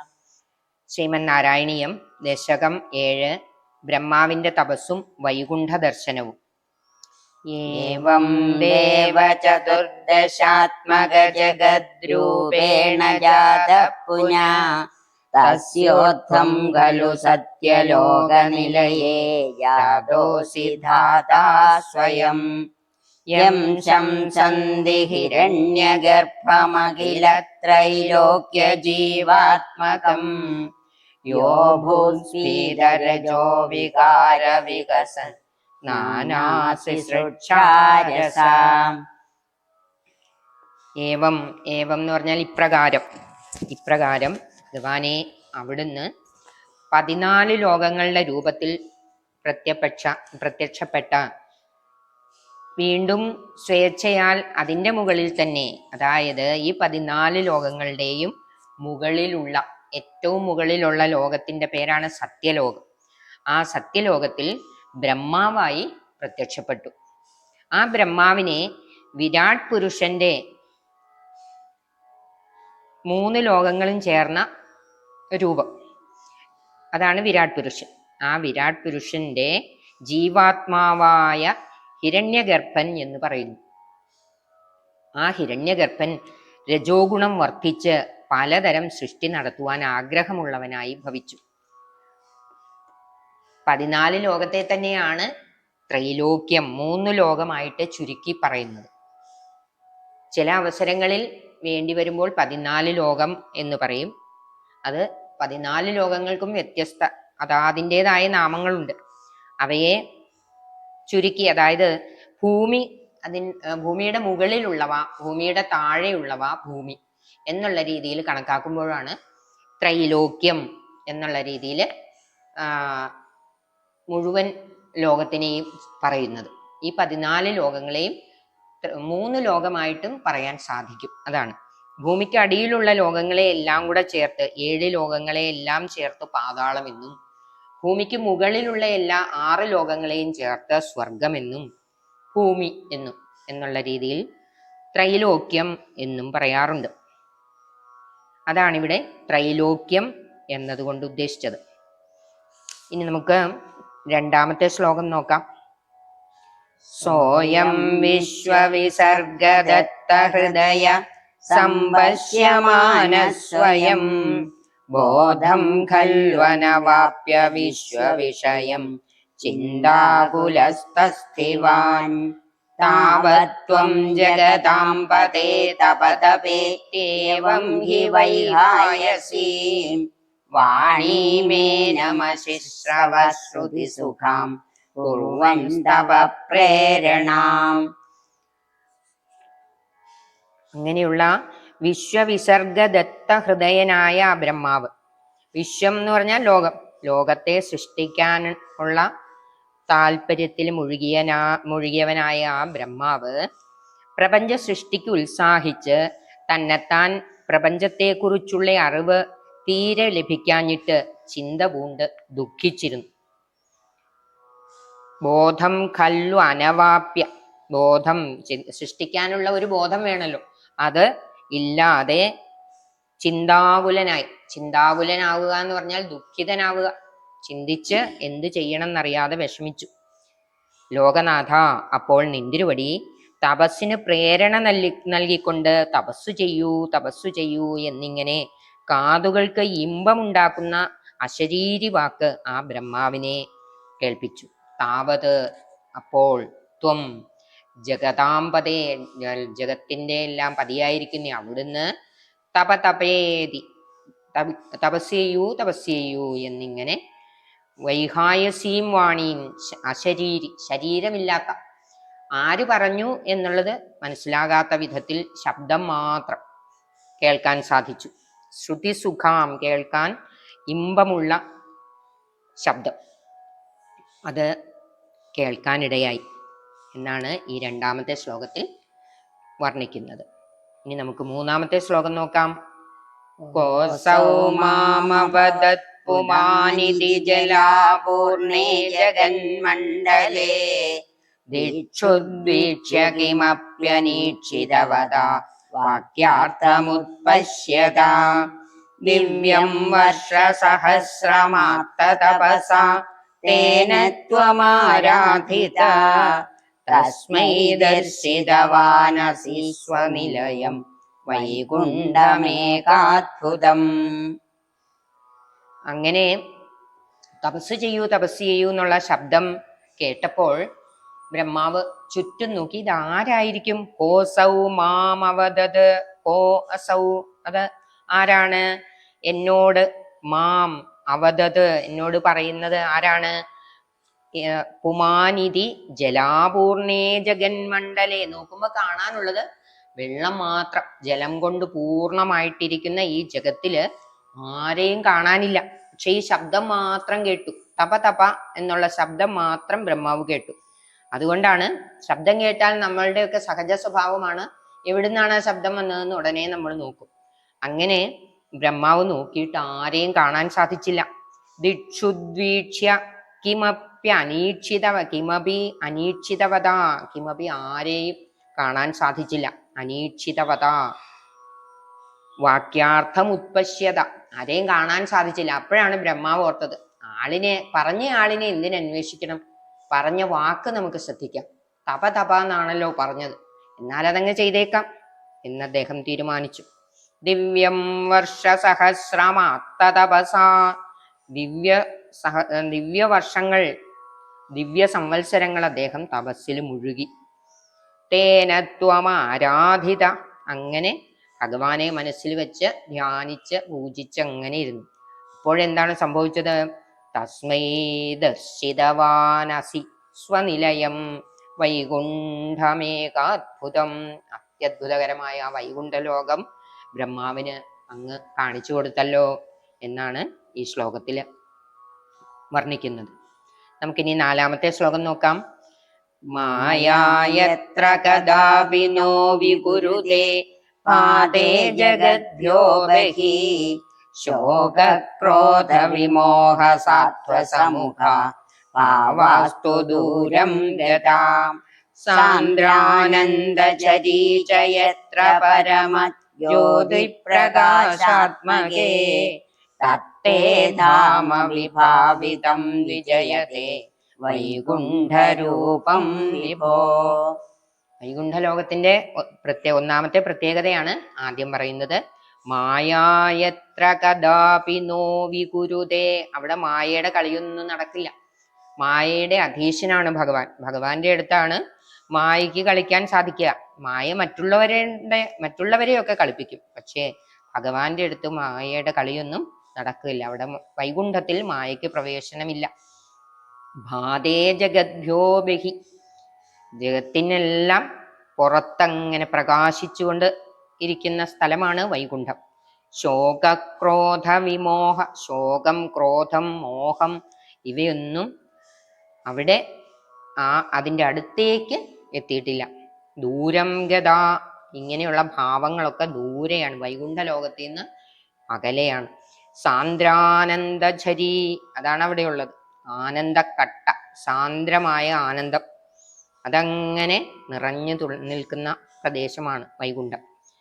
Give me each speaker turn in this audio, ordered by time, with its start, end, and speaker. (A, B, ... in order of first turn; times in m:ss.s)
0:01.0-0:03.4 A
0:03.9-0:06.4 A
0:07.5-0:09.9 A
0:07.7-0:14.7 B
0:11.0-0:14.5 A
0:15.3-0:22.4 B
0:15.4-0:19.0 A
0:19.8-0:22.3 A
0:23.3-0:26.0 A
0:23.4-0:30.3 B
0:26.6-0:27.4 A
0:29.8-0:30.3 A
0:31.3-0:35.2 B
0:31.3-0:35.3 A
0:35.8-0:38.9 A
0:35.9-0:39.0 B
0:41.0-0:43.0 A
0:43.7-0:46.1 A
0:46.9-0:48.8 A
0:49.4-0:51.2 A
0:52.8-0:58.3 A
0:58.8-1:02.8 A
1:03.5-1:04.5 A
1:05.0-1:06.9 A
1:07.8-1:08.6 A
1:09.2-1:10.4 A
1:13.1-1:14.4 A
1:15.4-1:15.7 A
1:17.0-1:19.5 A
1:20.1-1:23.6 A
1:25.2-1:26.2 A
1:26.7-1:31.4 A
1:33.7-1:35.3 A
1:35.9-1:38.9 A
1:40.4-1:44.1 A
1:44.9-1:49.0 A
1:49.6-1:50.0 A
1:51.1-1:57.0 A
1:57.5-1:59.2 A
1:59.8-2:01.9 A
2:02.6-2:03.1 A
2:04.1-2:04.5 A
2:05.0-2:08.1 A
2:08.8-2:17.2 A
2:17.8-2:21.7 A
2:22.3-2:24.2 A
2:25.0-2:26.9 A
2:28.5-2:31.6 A
2:32.9-2:33.4 A
2:34.1-2:35.4 A
2:37.0-2:41.0 A
2:37.0-2:40.9 B
2:41.5-2:44.4 B
2:41.5-2:48.9 A
2:45.0-2:48.8 B
2:49.4-2:52.1 A
2:49.5-2:50.7 B
2:51.3-2:52.2 B
2:52.8-2:59.5 A
2:52.8-3:00.1 B
3:00.6-3:07.8 B
3:00.6-3:03.8 A
3:05.0-3:06.1 A
3:10.8-3:11.3 A
3:11.9-3:14.9 A
3:15.6-3:19.1 A
3:19.9-3:23.4 A
3:24.2-3:33.1 A
3:35.2-3:42.3 A
3:43.2-3:46.9 A
3:47.5-3:49.9 A
3:51.0-4:03.4 A
4:04.0-4:05.3 A
4:06.0-4:07.0 A
4:07.9-4:11.9 A
4:12.6-4:13.6 A
4:14.4-4:17.0 A
4:17.9-4:21.6 A
4:22.4-4:26.4 A
4:27.2-4:30.1 A
4:30.7-4:31.4 A
4:32.6-4:32.9 A
4:35.4-4:36.2 A
4:36.9-4:38.7 A
4:39.6-4:40.2 A
4:40.9-4:42.5 A
4:43.4-4:50.9 B
4:43.6-4:50.6 A
4:51.5-4:55.3 A
4:51.6-4:58.3 B
4:55.8-4:58.1 A
4:59.0-5:02.9 B
4:59.1-5:06.1 A
5:03.4-5:06.4 B
5:06.9-5:09.3 A
5:06.9-5:10.8 B
5:09.8-5:10.8 A
5:11.3-5:13.9 B
5:11.3-5:13.0 A
5:15.9-5:16.3 A
5:17.4-5:19.5 A
5:20.0-5:20.6 A
5:21.3-5:28.7 A
5:29.3-5:33.4 A
5:34.4-5:39.4 A
5:40.0-5:43.8 A
5:44.4-5:50.6 A
5:51.1-5:57.1 A
5:57.7-5:58.0 A
5:58.6-6:01.1 A
6:01.6-6:10.8 A
6:12.5-6:24.8 A
6:25.4-6:26.7 A
6:27.3-6:30.8 A
6:31.3-6:33.7 A
6:34.6-6:37.1 A
6:38.1-6:44.8 A
6:45.4-6:46.6 A
6:47.2-6:51.0 A
6:51.6-6:56.4 A
6:57.0-7:01.2 A
7:02.5-7:03.1 A
7:03.8-7:05.4 A
7:06.3-7:13.3 A
7:06.4-7:10.3 B
7:10.9-7:16.3 B
7:14.2-7:18.3 A
7:16.8-7:18.2 B
7:18.8-7:21.4 B
7:18.8-7:21.4 A
7:22.0-7:29.3 A
7:22.1-7:29.3 B
7:29.8-7:33.7 B
7:29.8-7:37.1 A
7:34.2-7:37.4 B
7:38.0-7:48.1 A
7:48.8-7:51.6 A
7:52.1-8:02.7 A
8:03.9-8:05.8 A
8:06.8-8:07.8 A
8:08.4-8:10.3 A
8:10.8-8:12.4 A
8:13.0-8:18.3 A
8:19.3-8:19.6 A
8:20.4-8:22.7 A
8:23.2-8:27.8 A
8:28.5-8:29.1 A
8:29.6-8:35.6 A
8:36.5-8:40.2 A